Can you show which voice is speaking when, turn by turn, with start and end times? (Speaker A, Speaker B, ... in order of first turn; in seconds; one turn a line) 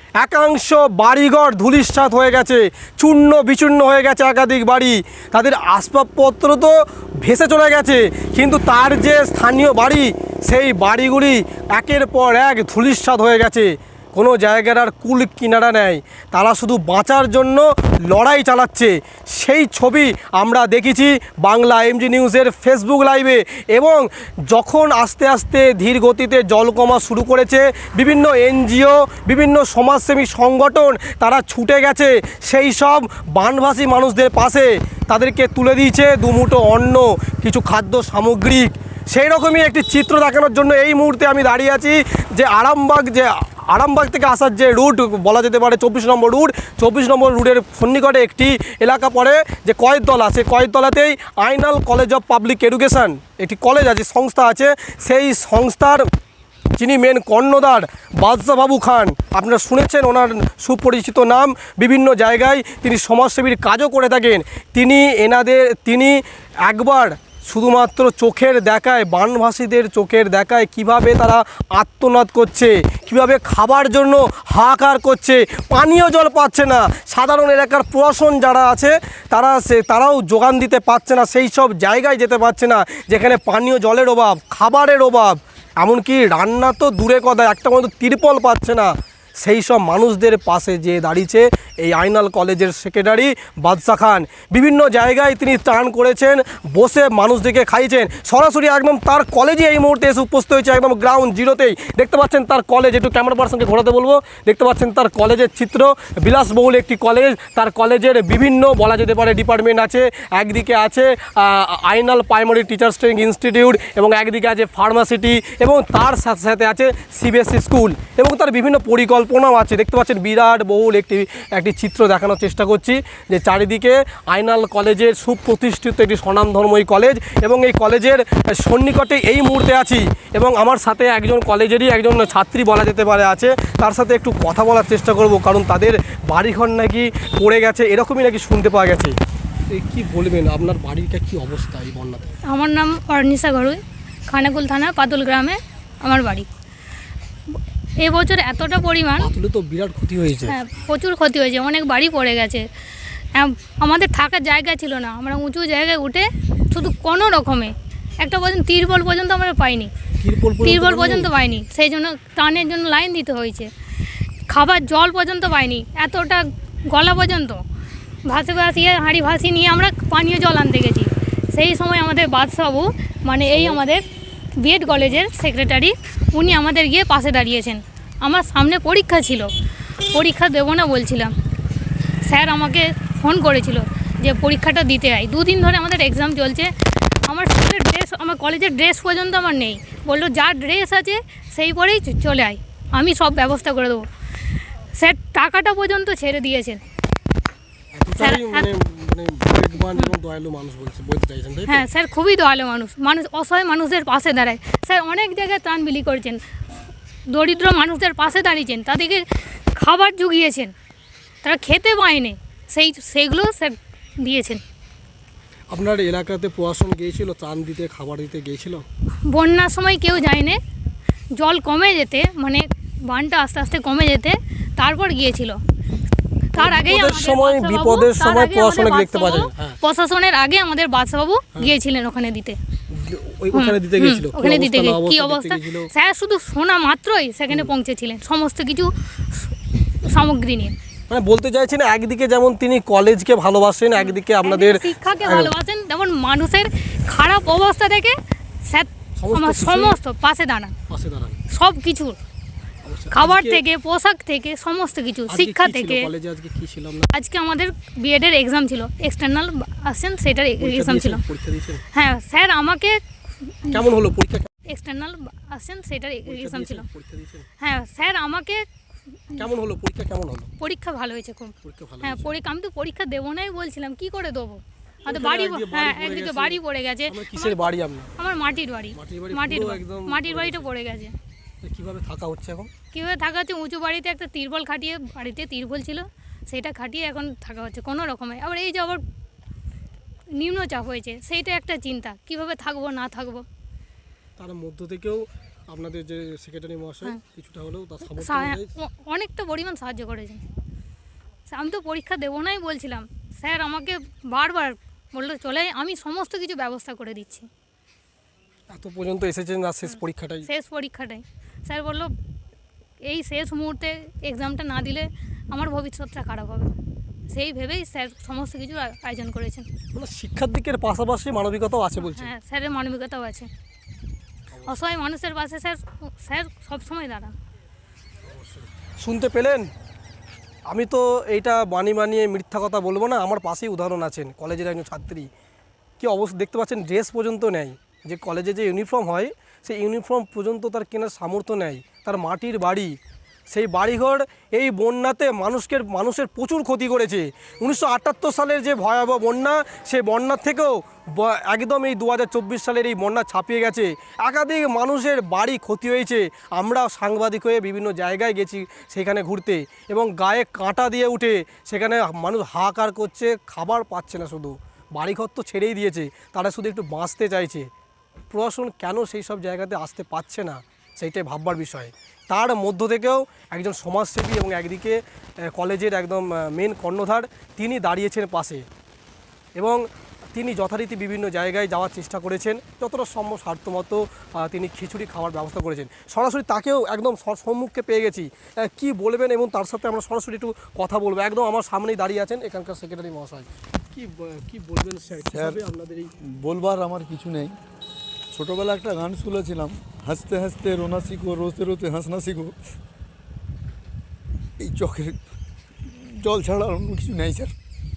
Speaker A: 0.2-56.1
Speaker A: 56.8-139.2
Speaker A: 139.7-142.3
Speaker B: 142.5-143.8
Speaker B: 144.3-146.5
Speaker B: 148.0-149.2
Speaker A: 149.2-150.6
Speaker B: 150.6-152.6
Speaker B: 153.3-159.9
Speaker A: 160.2-161.3
Speaker B: 160.6-163.7
Speaker B: 164.5-167.6
Speaker B: 168.3-174.0
Speaker A: 173.5-173.8
Speaker B: 174.6-179.5
Speaker B: 180.1-181.3
Speaker B: 182.3-186.7
Speaker B: 187.3-194.0
Speaker B: 195.0-196.8
Speaker A: 197.9-201.8
Speaker B: 198.2-198.6
Speaker B: 201.7-206.4
Speaker B: 207.3-209.2
Speaker B: 209.8-210.7
Speaker B: 211.4-214.6
Speaker A: 215.7-218.8
Speaker B: 219.3-220.6
Speaker B: 221.4-225.6
Speaker A: 226.6-229.8
Speaker B: 226.6-232.6
Speaker A: 232.9-235.9
Speaker B: 233.5-238.9
Speaker B: 240.1-240.7
Speaker A: 241.1-245.5
Speaker B: 244.0-248.2
Speaker B: 248.7-250.7
Speaker A: 249.2-250.0
Speaker A: 250.9-251.4
Speaker B: 251.5-252.2
Speaker A: 252.8-253.6
Speaker B: 253.1-256.1
Speaker A: 255.3-257.1
Speaker B: 257.1-261.2
Speaker A: 260.6-261.8
Speaker B: 261.9-263.0
Speaker A: 263.7-264.5
Speaker B: 264.7-266.9
Speaker A: 266.2-267.5
Speaker B: 267.6-268.6
Speaker A: 269.4-270.5
Speaker B: 270.6-271.5
Speaker A: 271.6-272.4
Speaker B: 272.0-277.6
Speaker A: 275.1-278.1
Speaker B: 278.2-281.1
Speaker A: 278.9-280.7
Speaker A: 281.6-282.7
Speaker B: 282.9-289.0
Speaker B: 290.4-293.4
Speaker A: 294.4-298.7
Speaker B: 298.2-300.4
Speaker B: 301.5-307.5
Speaker A: 308.7-310.5
Speaker B: 310.5-312.1
Speaker B: 313.1-316.7
Speaker B: 317.3-319.7
Speaker A: 319.9-322.3
Speaker B: 322.1-323.5
Speaker A: 324.5-324.8
Speaker B: 324.7-327.3
Speaker A: 328.2-329.7
Speaker A: 330.7-335.3
Speaker A: 336.0-342.9
Speaker A: 343.5-367.7
Speaker A: 368.3-378.6
Speaker A: 379.6-379.8
Speaker A: 380.3-396.1
Speaker C: 395.3-395.6
Speaker C: 396.4-397.6
Speaker C: 398.3-402.6
Speaker C: 404.6-405.2
Speaker C: 405.9-407.6